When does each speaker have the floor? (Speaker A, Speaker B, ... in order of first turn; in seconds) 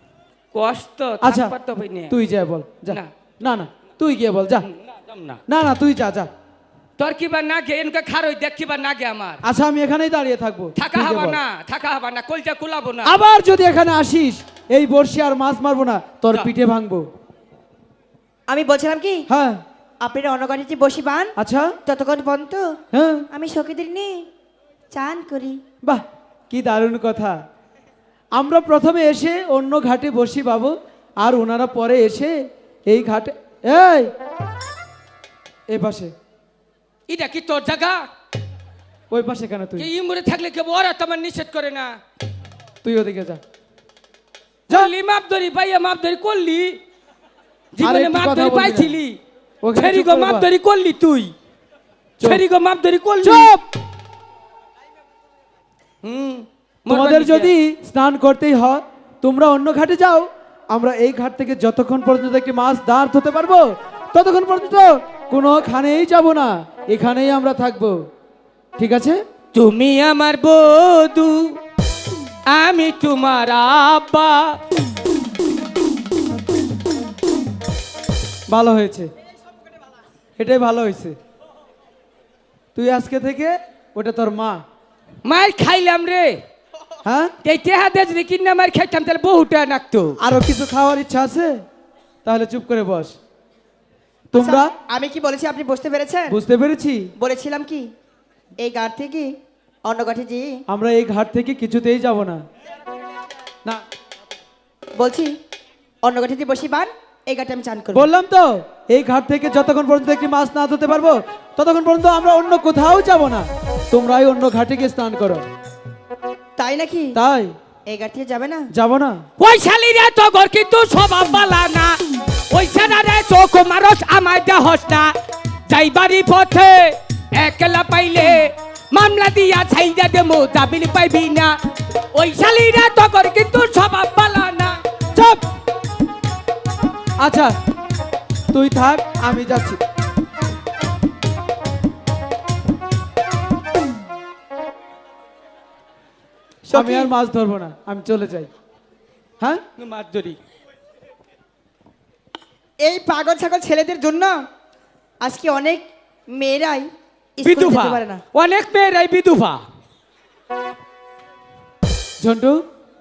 Speaker A: 0.5-2.2, 4.6-5.4, 7.0-9.4, 10.8-13.2, 37.1-38.1, 39.8-42.0, 44.7-46.8, 47.7-49.2, 49.8-51.3, 52.2-53.5, 56.0-57.5, 69.5-71.6, 72.5-74.6, 85.2-86.4, 87.4-90.2, 119.4-122.0, 122.5-125.1, 125.7-131.6, 132.1-134.8, 149.8-150.4, 157.4-159.6
Speaker B: 1.2-1.5, 2.1-4.7, 5.5-6.3, 9.4-11.4, 13.0-17.1, 19.3-19.6, 21.4-21.8, 22.9-23.3, 25.8-27.4, 28.4-34.1, 35.7-36.1, 39.1-39.9, 42.8-43.4, 47.8-49.0, 49.6-50.5, 53.2-53.7, 56.9-68.0, 68.8-69.2, 78.5-79.1, 80.4-81.2, 82.8-84.6, 87.0-87.3, 90.2-91.6, 92.2-93.2, 94.3-94.7, 96.3-97.1, 100.7-102.4, 107.9-115.4, 117.1-117.5, 118.7-119.2, 135.2-135.4, 137.2-137.5, 138.5-139.8, 146.7-148.5, 162.2-162.6
Speaker C: 18.5-19.3, 20.0-22.8, 23.3-24.3, 24.9-25.6, 94.3-96.4, 97.2-97.9, 98.6-99.3, 99.8-100.6, 105.0-105.4, 106.0-108.1, 116.6-117.2, 117.9-118.7, 146.7-147.1, 152.8-154.4, 155.2-158.2